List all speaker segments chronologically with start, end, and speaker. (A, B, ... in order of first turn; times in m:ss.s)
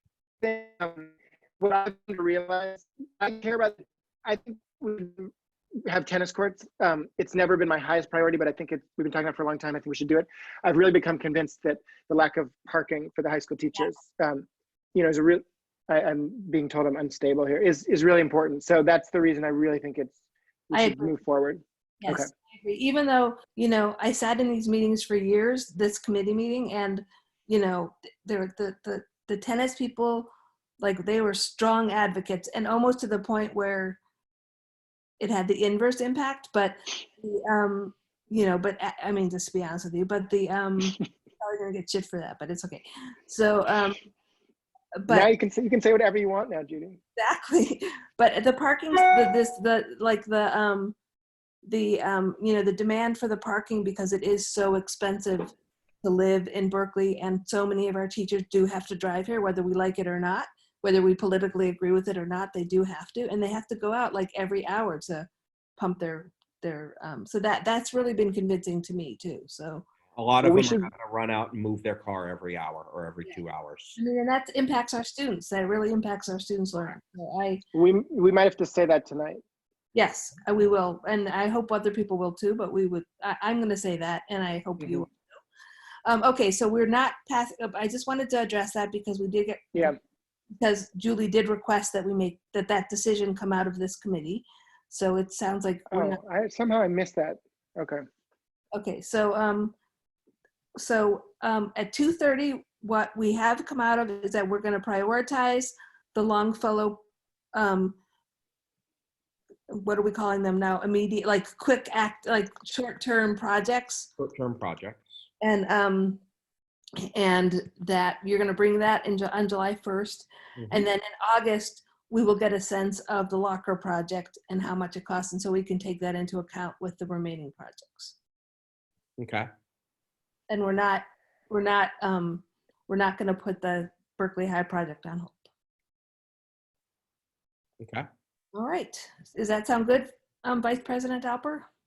0:00.4-0:05.3 A
0:05.9-0:20.2 A
0:20.7-0:22.3 A
0:20.7-0:21.1 B
0:22.0-0:34.0 B
0:35.2-0:44.0 B
0:45.0-0:45.3 B
0:45.1-0:47.0 A
0:47.2-0:51.0 B
0:51.6-1:09.8 B
1:10.1-1:14.0 C
1:10.4-1:10.9 A
1:14.0-1:17.6 B
1:17.8-1:19.4 A
1:20.0-1:25.2 B
1:26.1-1:29.9 B
1:30.6-1:36.2 B
1:35.9-1:38.0 A
1:38.7-1:39.7 B
1:40.8-1:47.0 B
1:47.5-1:48.0 B
1:49.7-1:54.1 B
1:54.2-1:55.1 C
1:55.4-1:56.2 B
1:57.1-2:08.1 B
2:00.6-2:00.8 C
2:09.2-2:09.5 C
2:10.5-2:15.5 B
2:17.8-2:18.0 C
2:18.5-2:21.6 B